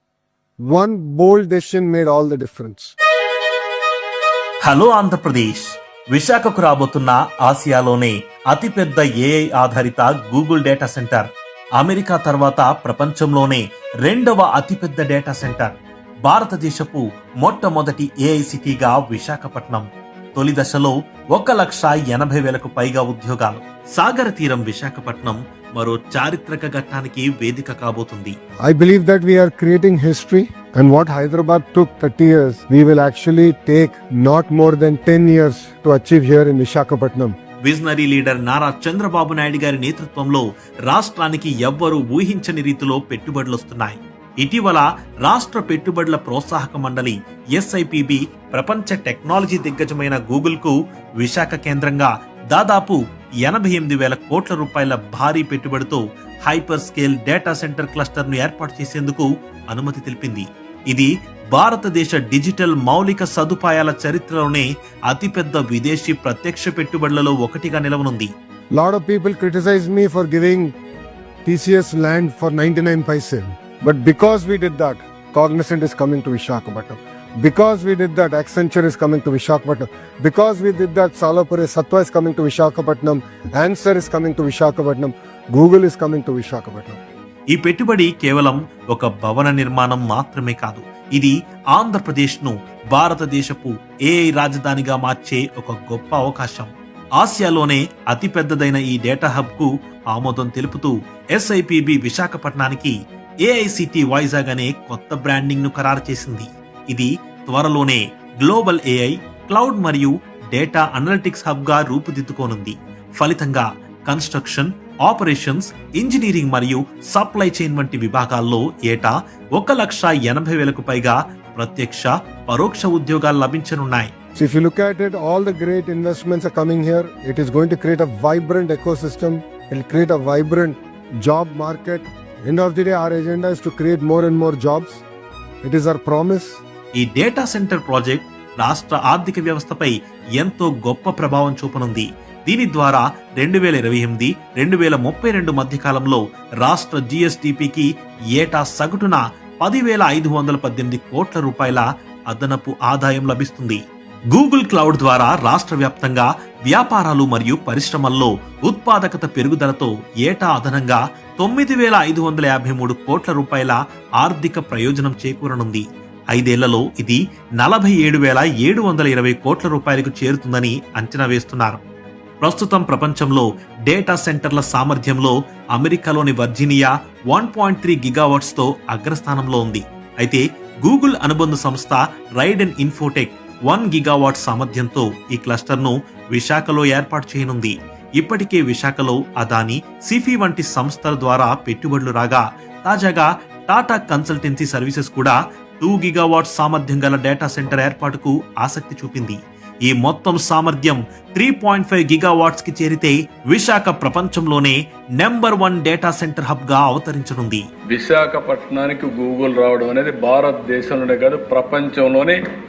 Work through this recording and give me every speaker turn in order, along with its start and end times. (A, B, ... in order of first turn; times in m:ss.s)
0:00.6-0:02.9 A
0:04.6-0:11.3 B
0:11.8-0:15.7 B
0:16.2-0:28.4 B
0:28.6-0:37.4 A
0:37.6-1:08.3 B
1:08.7-1:10.7 A
1:11.4-1:27.0 A
1:27.5-1:42.9 B
1:43.4-2:04.1 B
2:04.3-2:15.0 A
2:15.6-2:16.6 A
2:17.0-2:33.8 B
2:34.3-2:51.8 B
2:52.4-3:27.6 B
3:27.9-3:32.4 C